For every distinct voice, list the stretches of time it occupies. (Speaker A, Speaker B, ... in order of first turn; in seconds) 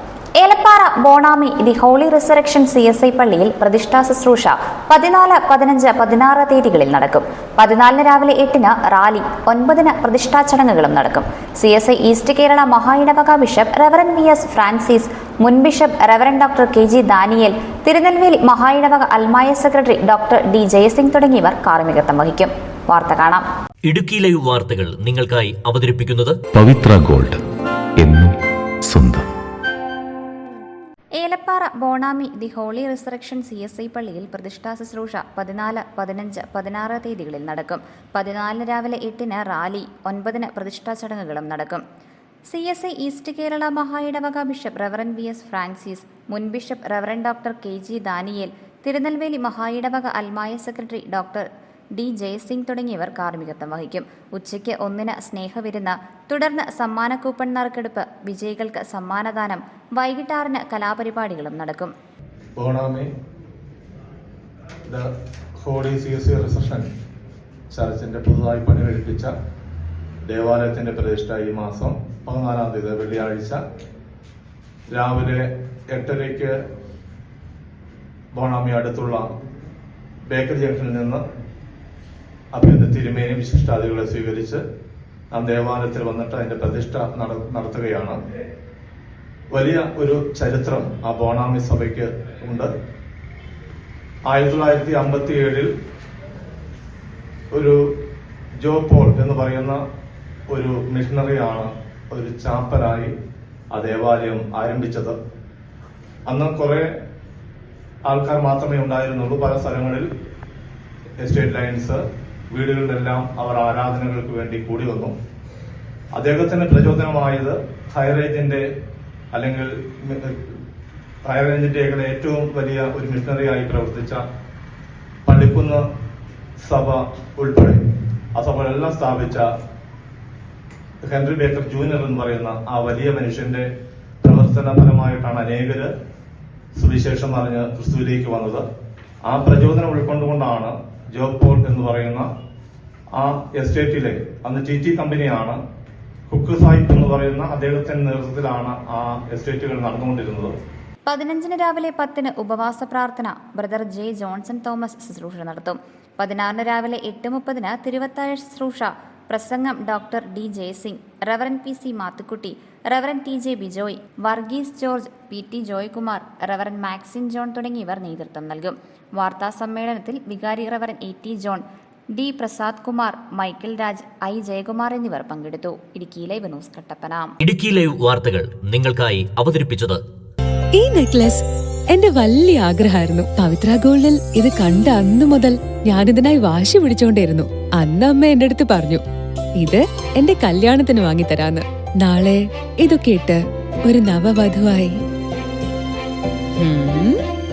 Speaker A: 0.4-23.4, 31.2-41.8, 42.5-61.9, 151.1-177.3
Speaker B: 23.8-26.4, 177.4-180.0
Speaker C: 26.5-27.4, 28.0-29.3
Speaker D: 62.6-63.1, 65.6-66.9, 67.7-69.3, 70.2-73.6, 74.9-76.5, 78.3-79.2, 80.3-81.2, 82.5-84.6, 85.3-88.2, 89.5-92.7, 94.3-95.7, 97.5-97.8, 98.6-99.8, 100.5-103.1, 103.7-105.2, 106.3-106.9, 108.0-110.1, 111.2-112.0, 112.5-115.1, 116.1-118.6, 119.3-120.6, 121.2-124.2, 125.2-125.8, 126.6-127.8, 128.3-129.5, 131.1-133.7, 134.2-135.9, 136.8-138.6, 139.2-142.3, 143.1-145.6, 146.3-150.5
Speaker E: 180.7-189.0, 189.6-195.0, 196.6-197.2